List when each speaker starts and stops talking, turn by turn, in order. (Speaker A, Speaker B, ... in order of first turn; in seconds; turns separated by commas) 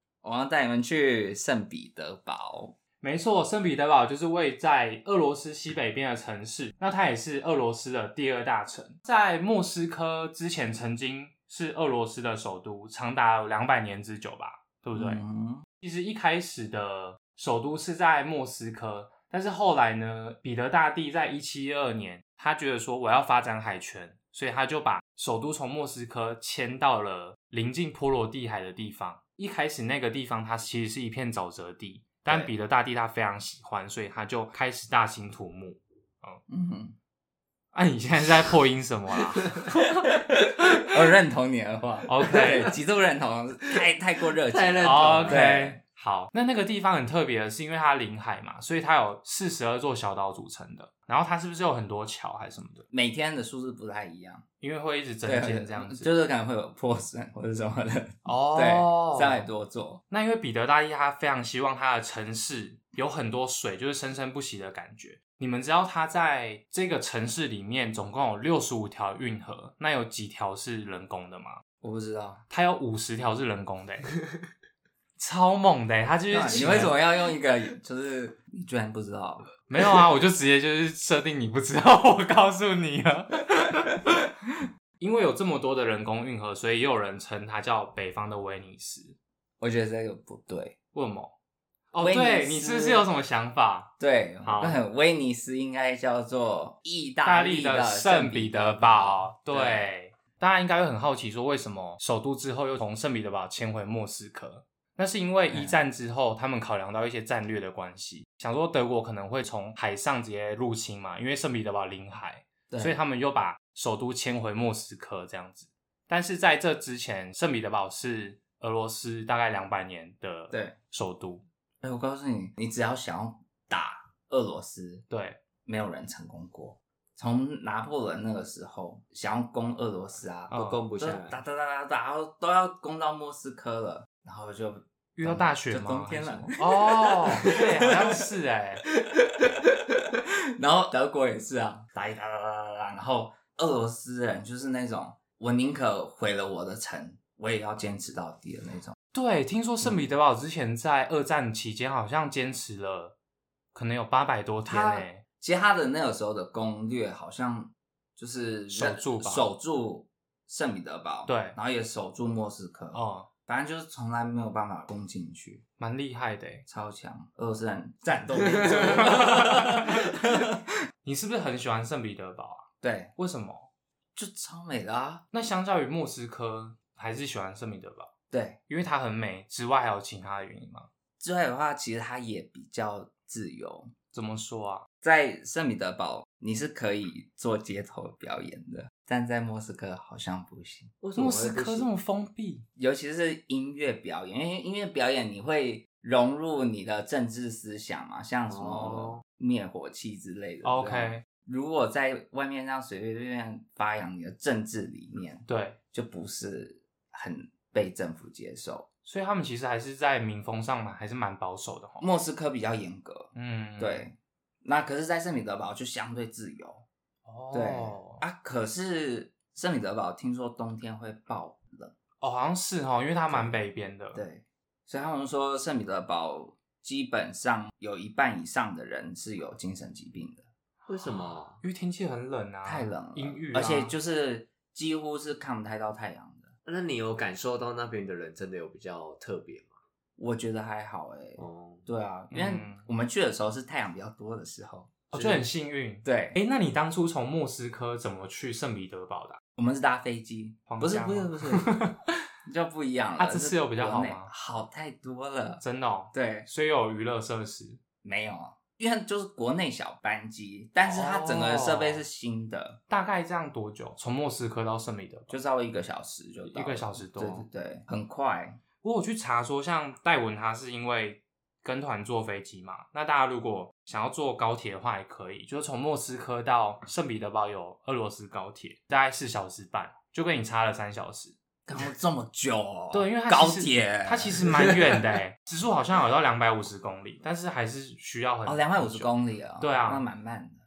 Speaker A: 0.2-2.8, Speaker B: 3.0-15.2, Speaker A: 14.9-15.6, Speaker B: 15.8-36.4, Speaker A: 36.5-36.9, Speaker B: 37.7-40.2, Speaker A: 40.0-45.8, Speaker B: 42.1-42.7, Speaker C: 44.5-45.5, Speaker B: 44.8-52.9, Speaker A: 52.9-54.4, Speaker B: 54.6-56.1, Speaker A: 55.2-60.0, Speaker B: 58.2-59.4, Speaker B: 60.1-71.6, Speaker A: 71.8-72.4, Speaker B: 72.5-74.1, Speaker B: 75.2-77.0, Speaker A: 76.3-79.5, Speaker B: 79.7-84.2, Speaker B: 85.0-89.2, Speaker A: 89.6-90.8, Speaker B: 90.9-91.3, Speaker B: 91.9-94.8, Speaker A: 92.0-93.0, Speaker A: 94.0-99.9, Speaker B: 97.2-121.4, Speaker A: 105.5-105.8, Speaker A: 112.7-113.0, Speaker A: 120.5-120.8, Speaker A: 121.8-125.0, Speaker B: 125.1-125.4, Speaker A: 125.6-138.2, Speaker B: 130.5-130.8, Speaker C: 130.5-131.4, Speaker B: 135.2-138.8, Speaker A: 140.6-148.9, Speaker B: 149.1-153.1, Speaker B: 153.7-155.2, Speaker A: 154.7-165.6, Speaker B: 158.7-159.5, Speaker B: 161.3-161.6, Speaker B: 162.9-163.3, Speaker B: 165.8-166.7, Speaker A: 166.7-170.5, Speaker C: 168.4-168.9, Speaker B: 168.8-170.2, Speaker B: 171.0-172.7, Speaker A: 172.8-173.1, Speaker B: 173.2-173.7, Speaker A: 174.2-175.2, Speaker B: 175.3-178.1, Speaker A: 178.3-178.6, Speaker B: 178.7-180.9, Speaker A: 181.2-183.9, Speaker B: 184.1-184.9, Speaker A: 185.0-190.9, Speaker C: 191.0-191.9, Speaker B: 191.1-192.6, Speaker A: 192.8-208.9, Speaker C: 198.5-199.2, Speaker B: 200.6-201.2, Speaker B: 205.5-205.8, Speaker B: 209.0-212.1, Speaker A: 212.0-216.8, Speaker B: 213.3-214.0, Speaker B: 217.2-218.2, Speaker A: 217.5-221.9, Speaker B: 222.2-224.2, Speaker A: 223.3-223.6, Speaker A: 224.1-230.5, Speaker B: 230.8-233.9, Speaker C: 230.9-231.6, Speaker A: 232.6-236.5, Speaker C: 236.7-239.8, Speaker A: 240.2-245.4, Speaker C: 241.4-241.8, Speaker B: 242.3-242.8, Speaker B: 245.1-249.4, Speaker A: 246.0-246.4, Speaker A: 249.6-251.8, Speaker B: 250.7-252.1, Speaker A: 252.4-255.6, Speaker B: 253.2-254.3, Speaker B: 255.6-257.8, Speaker A: 256.1-256.5, Speaker A: 258.0-262.8, Speaker B: 260.8-262.0, Speaker B: 262.9-265.3, Speaker A: 265.3-268.6, Speaker B: 266.5-267.4, Speaker B: 268.8-281.3, Speaker A: 281.6-284.8, Speaker B: 282.9-290.0, Speaker C: 284.5-285.0, Speaker A: 288.4-290.6